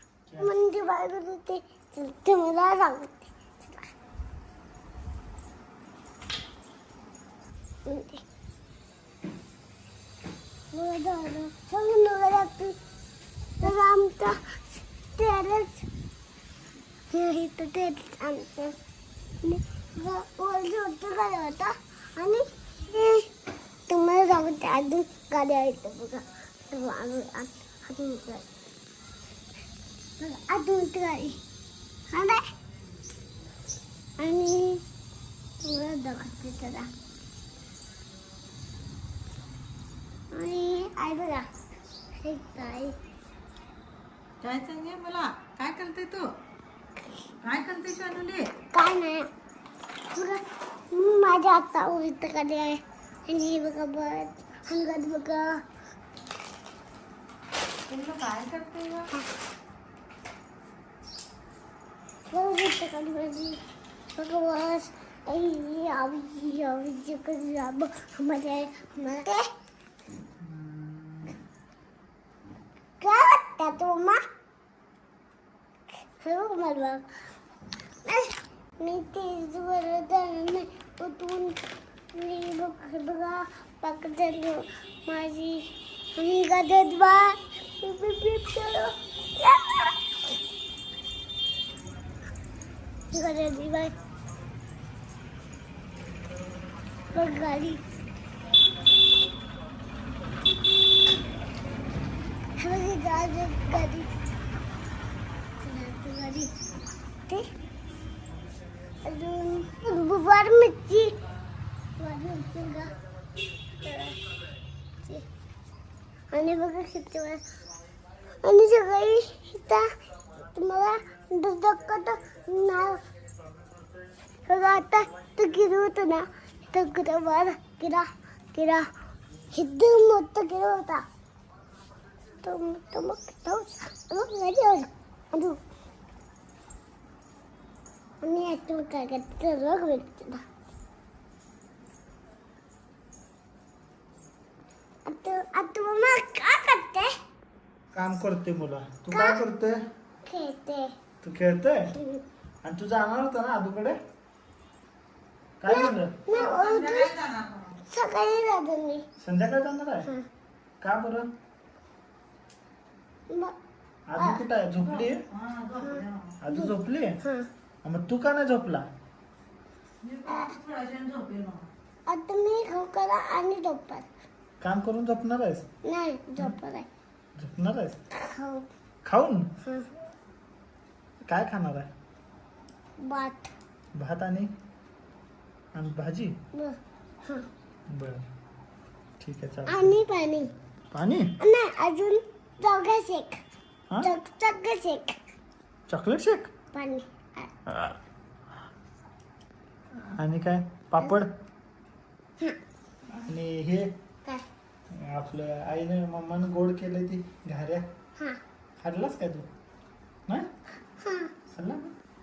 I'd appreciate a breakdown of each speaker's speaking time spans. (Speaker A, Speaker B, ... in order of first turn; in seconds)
Speaker A: 0.3-0.5, 70.4-71.3, 147.9-149.8, 151.2-151.9, 152.6-154.0, 155.6-156.2, 159.2-160.1, 160.8-161.3, 164.1-165.2, 166.4-167.2, 167.8-168.9, 174.6-175.7, 177.4-178.0, 179.0-179.5, 181.3-181.9, 183.9-184.5, 185.7-186.3, 187.9-188.2, 189.2-190.0, 190.9-191.3, 195.9-196.5, 197.7-198.0, 200.0-201.3, 203.1-203.9, 204.9-207.9, 208.8-209.5, 211.5-211.9
Speaker B: 0.4-3.9, 7.8-8.2, 10.7-12.8, 13.6-14.4, 15.1-15.9, 17.1-18.8, 19.4-23.3, 23.9-28.4, 30.2-31.4, 32.1-32.4, 34.2-34.8, 35.6-36.9, 40.3-41.5, 42.2-43.0, 48.7-49.3, 50.1-55.6, 62.3-63.6, 64.1-69.5, 73.0-74.2, 76.2-77.1, 78.0-81.6, 82.1-90.1, 93.1-93.9, 97.1-97.8, 102.6-104.1, 105.6-106.5, 109.0-111.2, 112.0-112.9, 113.8-114.2, 116.3-117.4, 118.4-119.9, 120.4-123.0, 124.5-128.8, 129.5-131.1, 132.4-135.6, 138.2-140.4, 145.1-147.1, 149.1-149.4, 150.2-150.9, 151.9-152.2, 155.7-157.1, 157.8-159.0, 163.3-163.6, 164.2-164.4, 165.8-167.5, 170.2-170.6, 172.1-174.1, 175.8-176.9, 178.1-178.7, 179.6-179.9, 183.0-183.5, 186.5-187.5, 189.7-190.5, 191.4-193.4, 194.0-195.2, 196.7-197.5, 211.0-211.3
Speaker C: 44.4-46.3, 47.4-48.5, 57.9-59.1, 156.3-157.8, 165.0-166.3, 170.0-171.7